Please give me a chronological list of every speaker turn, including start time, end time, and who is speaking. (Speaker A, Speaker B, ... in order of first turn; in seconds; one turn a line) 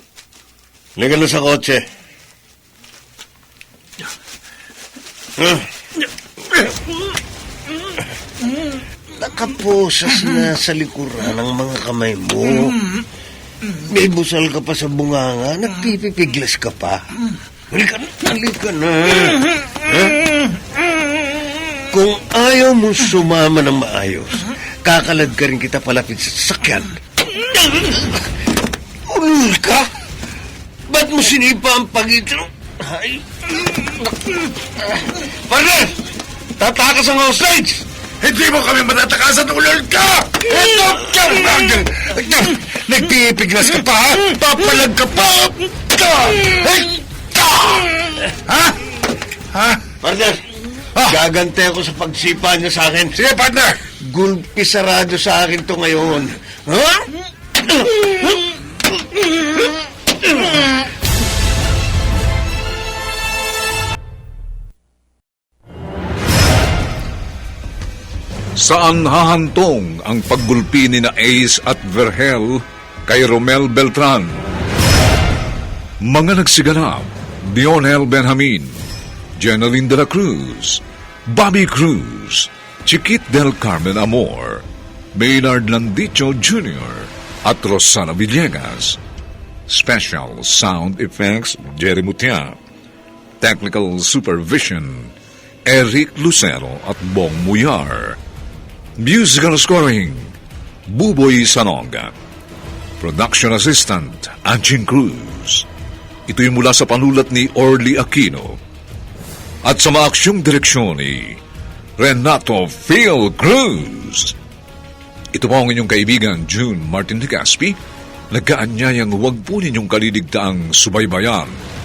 Speaker A: 1.0-1.8
Speaker A: 5.4-5.7
Speaker A: 9.1-12.7
Speaker A: 13.8-17.0
Speaker A: 17.7-20.2
Speaker A: 21.9-28.1
Speaker A: 29.1-29.9
Speaker A: 30.9-33.4
Speaker A: 35.2-35.9
Speaker A: 36.6-37.8
Speaker B: 38.2-46.9
Speaker B: 47.4-47.9
Speaker B: 48.5-48.8
Speaker B: 49.5-49.8
Speaker A: 50.0-50.4
Speaker A: 51.1-53.1
Speaker B: 53.1-53.7
Speaker A: 54.0-57.1
Speaker A: 57.6-58.3
Speaker C: 68.6-74.3
Speaker C: 76.0-78.7
Speaker C: 79.4-84.6
Speaker C: 85.1-89.0
Speaker C: 89.7-92.6
Speaker C: 93.4-95.1
Speaker C: 95.7-98.2
Speaker C: 99.0-100.3
Speaker C: 100.9-102.1
Speaker C: 103.0-105.6
Speaker C: 106.3-108.6
Speaker C: 109.6-111.4
Speaker C: 112.0-114.3
Speaker C: 115.3-117.8
Speaker C: 118.3-121.5